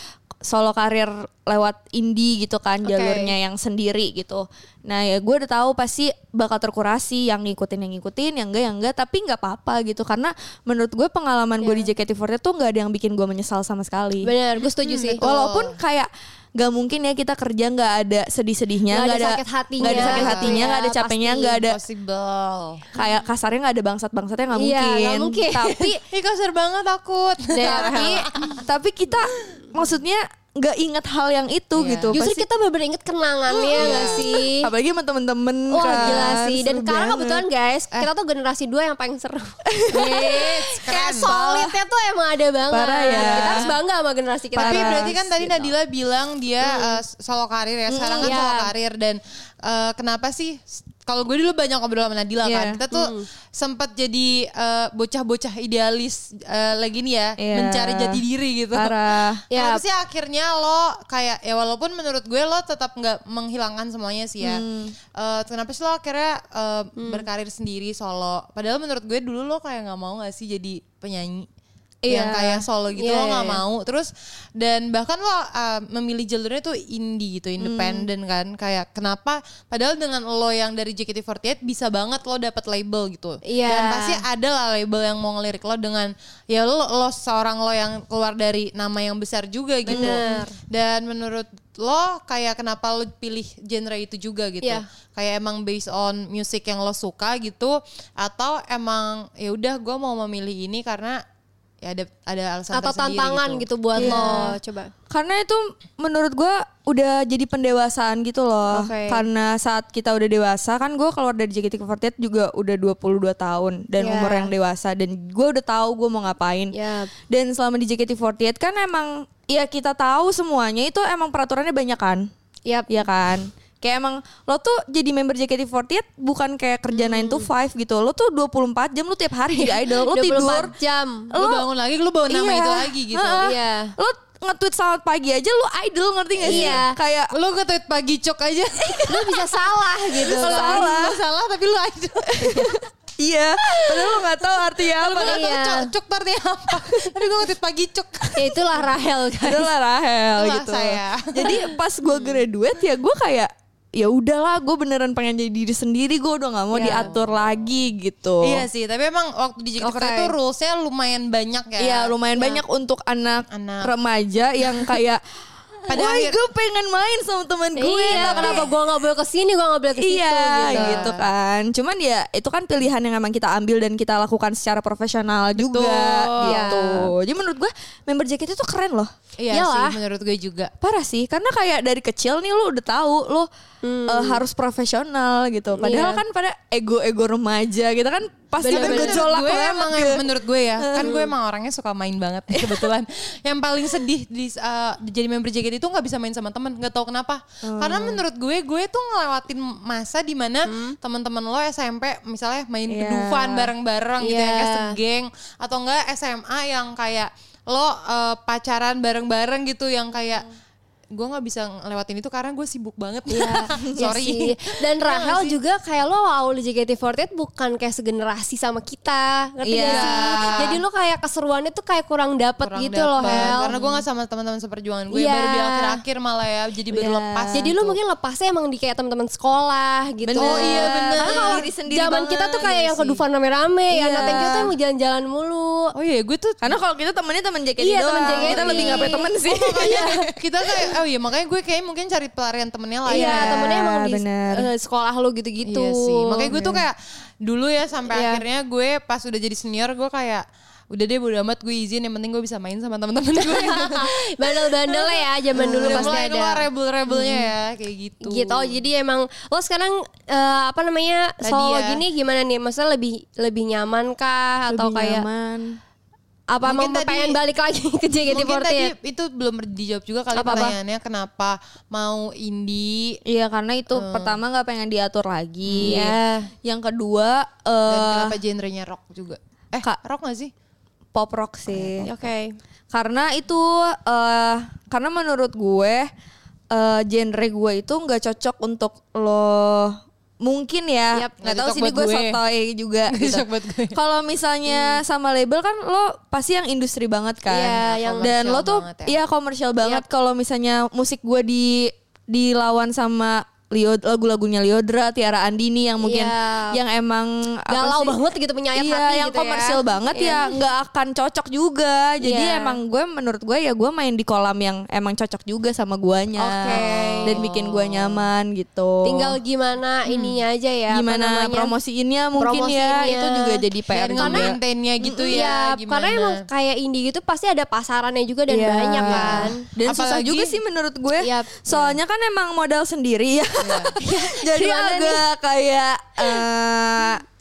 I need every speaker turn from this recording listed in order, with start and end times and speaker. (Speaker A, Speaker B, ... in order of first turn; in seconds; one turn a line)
Speaker A: 0.4-14.3
Speaker B: 2.8-3.3
Speaker B: 11.6-11.9
Speaker B: 14.2-15.2
Speaker C: 14.8-15.8
Speaker A: 15.2-21.8
Speaker B: 18.9-21.6
Speaker C: 19.8-20.6
Speaker C: 21.6-22.9
Speaker A: 22.9-26.0
Speaker B: 24.6-26.0
Speaker C: 26.1-28.6
Speaker B: 27.5-28.3
Speaker A: 27.6-32.4
Speaker C: 31.8-32.2
Speaker B: 32.1-34.7
Speaker A: 33.5-37.4
Speaker C: 33.8-34.3
Speaker B: 35.7-45.2
Speaker C: 36.0-36.3
Speaker A: 39.7-41.8
Speaker C: 40.1-41.3
Speaker A: 42.7-43.7
Speaker C: 43.1-43.7
Speaker A: 44.5-45.7
Speaker C: 44.6-59.0
Speaker B: 46.7-47.0
Speaker A: 47.9-48.4
Speaker B: 48.2-48.7
Speaker A: 52.4-52.8
Speaker B: 52.9-53.3
Speaker A: 57.4-58.2
Speaker A: 58.7-59.4
Speaker B: 59.5-59.8
Speaker C: 59.5-64.6
Speaker A: 64.4-65.0
Speaker C: 65.2-71.5
Speaker B: 67.0-67.2
Speaker A: 72.0-72.6
Speaker C: 72.1-101.2
Speaker B: 72.9-73.6
Speaker A: 77.6-78.1
Speaker B: 83.4-84.2
Speaker A: 89.9-90.4
Speaker B: 89.9-90.5
Speaker C: 101.8-104.5
Speaker B: 102.7-104.9
Speaker A: 104.0-104.6
Speaker A: 105.1-116.7
Speaker B: 108.7-109.2
Speaker B: 114.0-114.5
Speaker B: 116.7-117.1
Speaker A: 117.3-122.3
Speaker B: 122.7-123.0
Speaker A: 122.9-130.7
Speaker B: 126.9-127.5
Speaker B: 129.5-131.3
Speaker A: 131.3-131.7
Speaker C: 131.3-133.5
Speaker A: 132.3-137.3
Speaker B: 133.4-133.9
Speaker B: 136.4-136.9
Speaker C: 136.5-136.8
Speaker C: 137.3-139.5
Speaker B: 139.1-140.9
Speaker A: 140.2-141.2
Speaker C: 140.2-142.7
Speaker A: 142.3-145.5
Speaker B: 145.0-145.9
Speaker C: 145.1-148.5
Speaker B: 148.3-149.7
Speaker A: 149.4-158.7
Speaker C: 150.3-151.6
Speaker B: 156.7-157.1
Speaker C: 156.8-157.2
Speaker C: 158.4-162.1
Speaker B: 159.8-160.3
Speaker A: 161.8-165.2
Speaker B: 162.4-162.6
Speaker C: 163.5-163.9
Speaker A: 165.9-168.7
Speaker C: 165.9-166.4
Speaker B: 167.8-171.1
Speaker C: 168.1-168.7
Speaker A: 170.0-179.1
Speaker C: 170.7-171.3
Speaker C: 175.6-176.8
Speaker B: 176.5-177.1
Speaker C: 179.4-180.7
Speaker B: 179.5-180.0
Speaker A: 180.8-183.5
Speaker B: 183.8-184.4
Speaker A: 184.1-190.3
Speaker B: 185.8-186.2
Speaker B: 188.6-189.3
Speaker C: 188.7-210.5
Speaker A: 190.8-191.2
Speaker B: 191.0-191.3
Speaker A: 192.5-192.9
Speaker A: 197.6-198.2
Speaker B: 200.7-201.0
Speaker A: 202.9-203.7
Speaker B: 204.2-204.9
Speaker C: 211.2-215.6
Speaker B: 213.3-223.7
Speaker A: 219.6-220.6
Speaker C: 219.9-220.7
Speaker C: 222.6-228.0
Speaker A: 223.2-224.0
Speaker B: 225.1-226.0
Speaker A: 226.9-227.7
Speaker B: 227.5-235.9
Speaker A: 230.3-233.2
Speaker C: 230.4-231.7
Speaker A: 233.9-234.7
Speaker C: 234.2-234.6
Speaker C: 235.9-236.8
Speaker A: 236.6-240.1
Speaker B: 237.8-240.2
Speaker C: 238.4-243.7
Speaker B: 243.1-246.6
Speaker A: 243.1-244.6
Speaker C: 245.7-258.8
Speaker A: 246.5-246.8
Speaker B: 248.1-248.4
Speaker B: 253.3-256.6
Speaker A: 255.6-256.2
Speaker A: 257.1-257.4
Speaker B: 258.2-265.2
Speaker C: 261.4-262.0
Speaker A: 264.7-265.8
Speaker B: 266.5-268.9
Speaker C: 266.6-267.4
Speaker C: 268.3-273.2
Speaker B: 270.3-270.8
Speaker A: 273.3-278.4
Speaker C: 273.9-274.4
Speaker C: 275.7-276.1
Speaker B: 275.8-276.5
Speaker C: 277.9-280.5
Speaker A: 281.1-282.1
Speaker C: 281.7-282.2
Speaker B: 282.0-282.6
Speaker A: 282.9-286.1
Speaker A: 286.7-308.2
Speaker C: 291.4-292.4
Speaker C: 293.1-294.0
Speaker B: 297.5-298.3
Speaker C: 297.8-299.2
Speaker B: 306.0-306.8
Speaker B: 307.7-310.6
Speaker A: 308.8-319.4
Speaker B: 312.2-312.8
Speaker B: 316.4-317.4
Speaker C: 316.7-317.8
Speaker B: 319.0-321.7
Speaker C: 320.1-320.4
Speaker A: 320.9-325.4
Speaker B: 322.4-323.6
Speaker C: 323.9-326.4
Speaker B: 324.2-324.5
Speaker B: 325.3-329.6
Speaker A: 328.5-337.2
Speaker C: 329.0-330.6
Speaker B: 331.2-331.6
Speaker C: 331.7-332.0
Speaker C: 333.6-333.9
Speaker B: 334.0-335.2